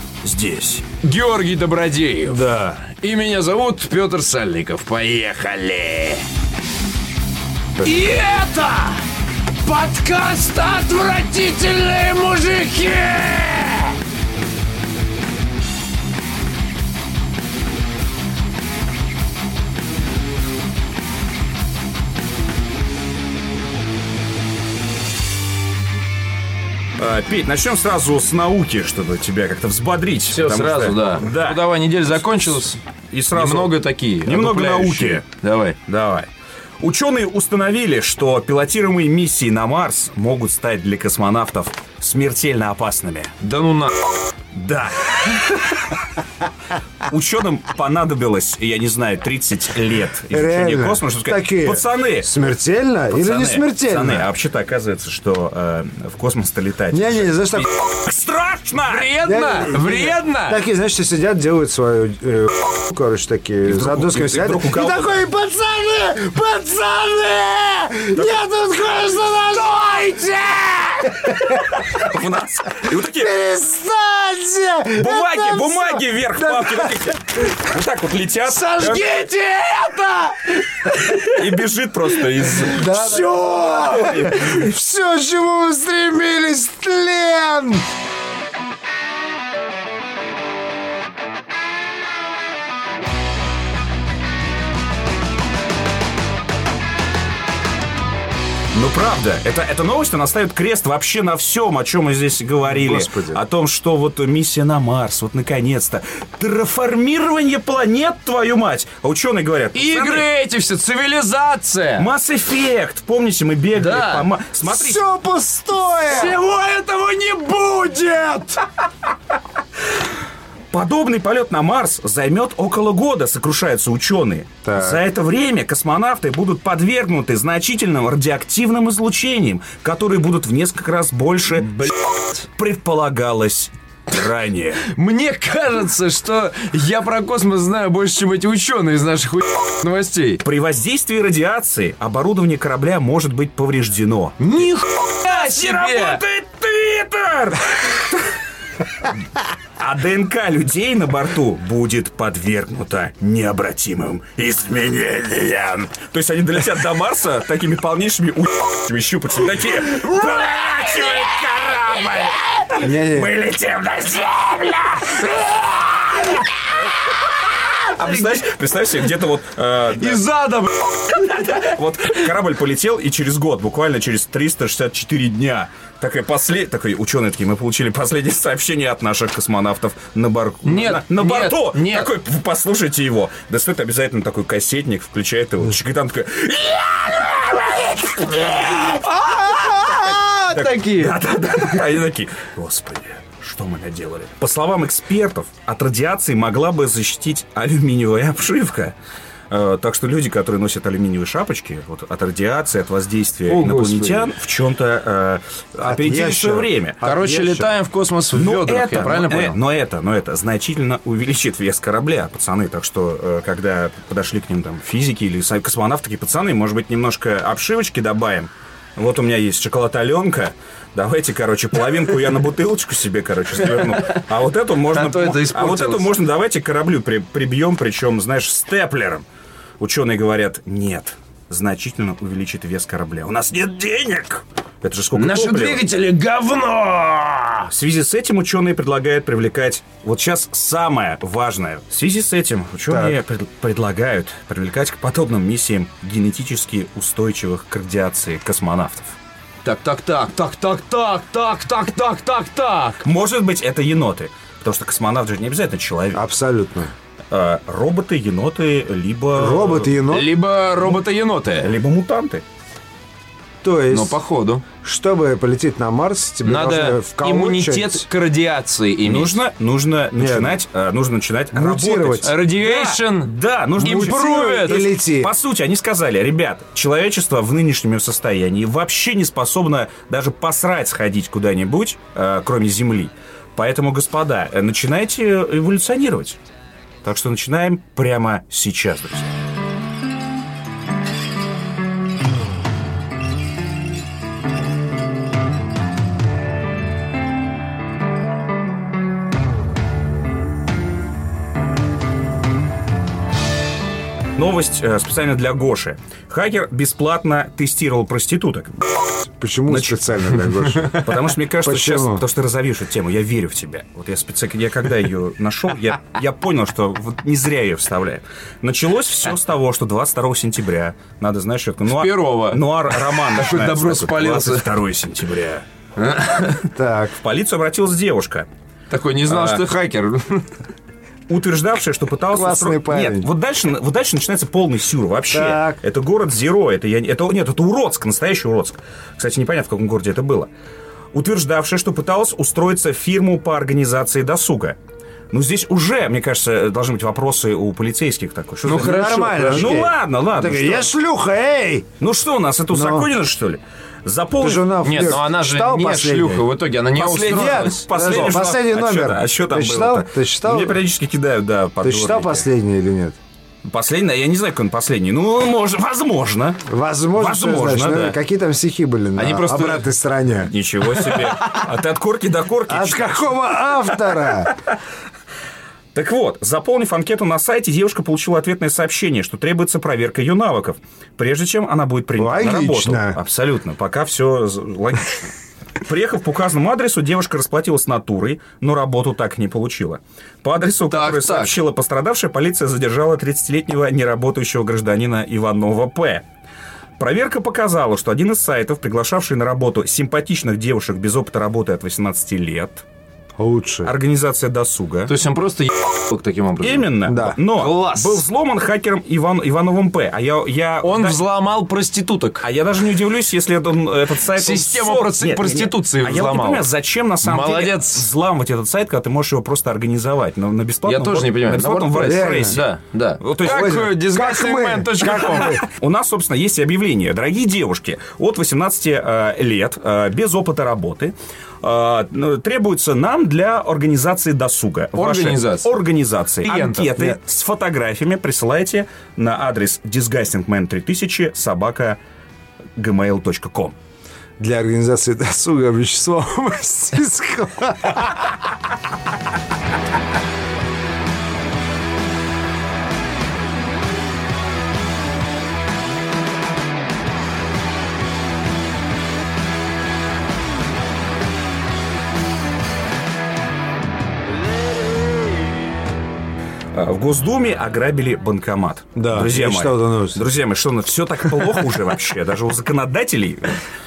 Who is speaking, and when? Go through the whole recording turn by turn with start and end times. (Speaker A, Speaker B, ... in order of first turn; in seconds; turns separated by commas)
Speaker A: 0.2-0.9, Speaker B: 1.0-6.2, Speaker A: 2.3-2.8, Speaker B: 7.8-9.0, Speaker B: 9.6-14.0, Speaker A: 27.0-32.2, Speaker B: 30.3-32.8, Speaker A: 33.1-35.2, Speaker B: 33.3-35.8, Speaker A: 35.9-36.3, Speaker A: 36.8-43.3, Speaker B: 43.4-43.9, Speaker A: 44.5-45.9, Speaker A: 47.0-52.3, Speaker C: 50.3-54.3, Speaker A: 53.1-59.1, Speaker C: 56.9-57.7, Speaker B: 58.9-60.6, Speaker C: 59.2-71.9, Speaker A: 63.6-65.2, Speaker A: 71.3-73.3, Speaker C: 72.9-77.1, Speaker A: 75.0-79.2, Speaker C: 78.6-80.5, Speaker B: 78.8-80.0, Speaker A: 81.1-84.7, Speaker C: 82.6-87.8, Speaker A: 98.7-110.3, Speaker C: 102.7-103.4, Speaker B: 109.7-112.1, Speaker A: 112.0-115.0, Speaker B: 113.8-114.3, Speaker C: 114.6-116.4, Speaker B: 116.0-118.6, Speaker A: 120.7-134.8, Speaker C: 124.6-125.0, Speaker B: 134.8-140.4, Speaker A: 140.4-144.7, Speaker B: 144.4-146.2, Speaker A: 145.2-148.3, Speaker A: 149.8-166.4, Speaker C: 162.8-163.3, Speaker A: 167.8-170.2, Speaker B: 168.0-168.3, Speaker B: 170.0-171.5, Speaker A: 171.1-198.9, Speaker B: 180.7-182.1, Speaker B: 188.8-191.2, Speaker A: 199.5-207.0, Speaker B: 203.5-204.3, Speaker C: 205.8-207.7, Speaker B: 207.0-209.6, Speaker A: 208.3-229.2, Speaker B: 224.9-226.1, Speaker A: 229.8-235.8, Speaker B: 235.2-237.7, Speaker A: 237.7-249.2, Speaker C: 242.9-243.2, Speaker B: 249.6-253.0, Speaker A: 253.0-256.2, Speaker C: 256.1-256.9, Speaker A: 257.3-260.0, Speaker C: 259.4-260.3, Speaker B: 260.1-261.7, Speaker A: 261.6-262.4, Speaker C: 263.6-264.2, Speaker B: 263.9-264.6, Speaker C: 264.8-268.0, Speaker B: 266.4-269.4, Speaker A: 269.0-286.4, Speaker C: 270.2-270.6, Speaker C: 271.5-272.4, Speaker B: 272.2-274.8, Speaker C: 273.8-275.3, Speaker A: 287.0-289.4, Speaker A: 304.4-308.8, Speaker C: 309.2-312.2, Speaker A: 309.7-325.6, Speaker B: 321.9-324.7, Speaker B: 326.0-326.6, Speaker C: 326.8-327.2, Speaker A: 327.1-328.5, Speaker B: 328.9-330.5, Speaker A: 329.2-329.7, Speaker A: 331.3-340.5, Speaker C: 332.3-333.3, Speaker C: 335.3-335.8, Speaker A: 341.1-344.8, Speaker A: 345.3-350.9, Speaker B: 348.7-349.9, Speaker C: 348.7-351.9, Speaker A: 352.0-355.2, Speaker C: 352.7-353.1, Speaker C: 354.4-356.5, Speaker B: 354.8-358.3, Speaker A: 357.0-362.4, Speaker C: 357.2-360.8, Speaker C: 361.8-363.2, Speaker A: 363.6-366.6, Speaker C: 366.7-370.5, Speaker A: 367.2-368.2, Speaker B: 369.2-369.9, Speaker A: 370.4-374.8, Speaker C: 372.7-374.6, Speaker A: 375.9-396.2, Speaker C: 382.2-383.2, Speaker B: 390.9-391.6, Speaker A: 397.0-402.9, Speaker C: 403.4-403.9, Speaker A: 403.9-405.1, Speaker B: 405.1-406.9, Speaker A: 406.6-411.2, Speaker C: 407.1-407.4, Speaker B: 407.5-408.2, Speaker B: 410.8-412.5, Speaker A: 412.4-422.7, Speaker B: 414.4-416.7, Speaker B: 417.2-418.1, Speaker B: 420.9-425.6, Speaker C: 422.0-422.6, Speaker A: 423.2-423.9, Speaker C: 423.4-425.7, Speaker A: 425.4-442.0, Speaker B: 434.9-435.8, Speaker B: 436.4-437.0, Speaker A: 442.8-443.8, Speaker C: 444.4-448.4, Speaker A: 466.7-473.6, Speaker C: 469.0-470.2